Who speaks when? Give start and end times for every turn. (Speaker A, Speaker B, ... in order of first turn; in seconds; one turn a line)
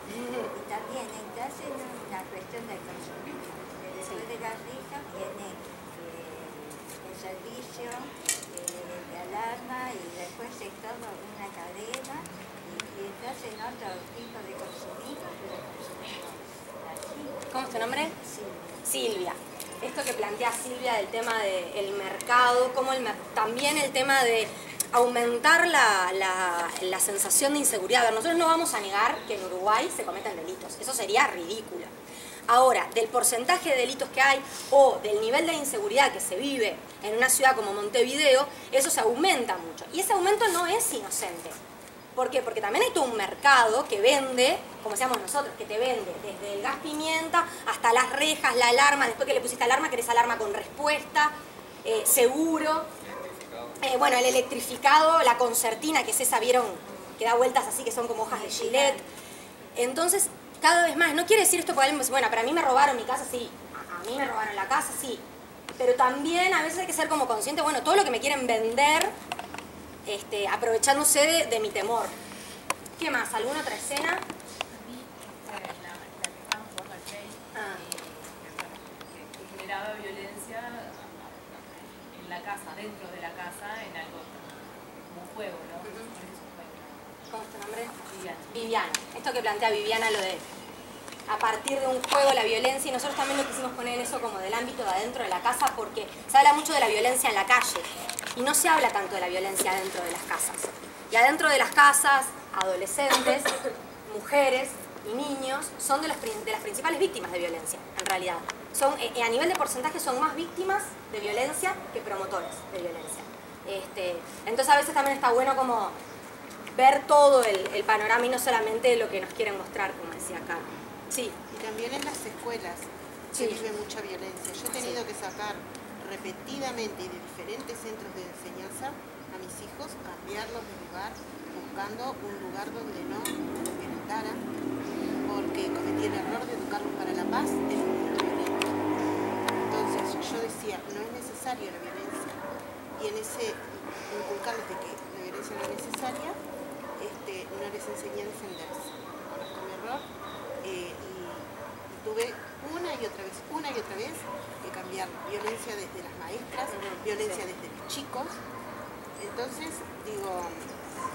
Speaker A: 0.1-0.5
Speaker B: 0.5-18.8
Speaker A: 17.5-18.1
Speaker A: 18.8-31.9
Speaker A: 32.5-41.6
Speaker A: 42.1-52.9
Speaker A: 53.8-59.0
Speaker B: 58.3-59.0
Speaker A: 59.8-65.2
Speaker A: 65.8-69.1
Speaker A: 70.0-72.1
Speaker A: 73.0-74.2
Speaker C: 74.7-84.5
Speaker A: 77.5-77.8
Speaker C: 85.0-87.1
Speaker A: 85.8-86.1
Speaker A: 87.3-88.0
Speaker C: 88.0-89.0
Speaker A: 88.5-90.4
Speaker A: 91.3-116.0
Speaker A: 116.7-121.3
Speaker D: 121.5-134.4
Speaker A: 123.3-123.7
Speaker D: 135.2-139.0
Speaker D: 139.7-142.4
Speaker D: 143.0-146.4
Speaker D: 147.0-150.0
Speaker D: 150.6-158.4
Speaker A: 156.7-157.4
Speaker D: 159.2-160.8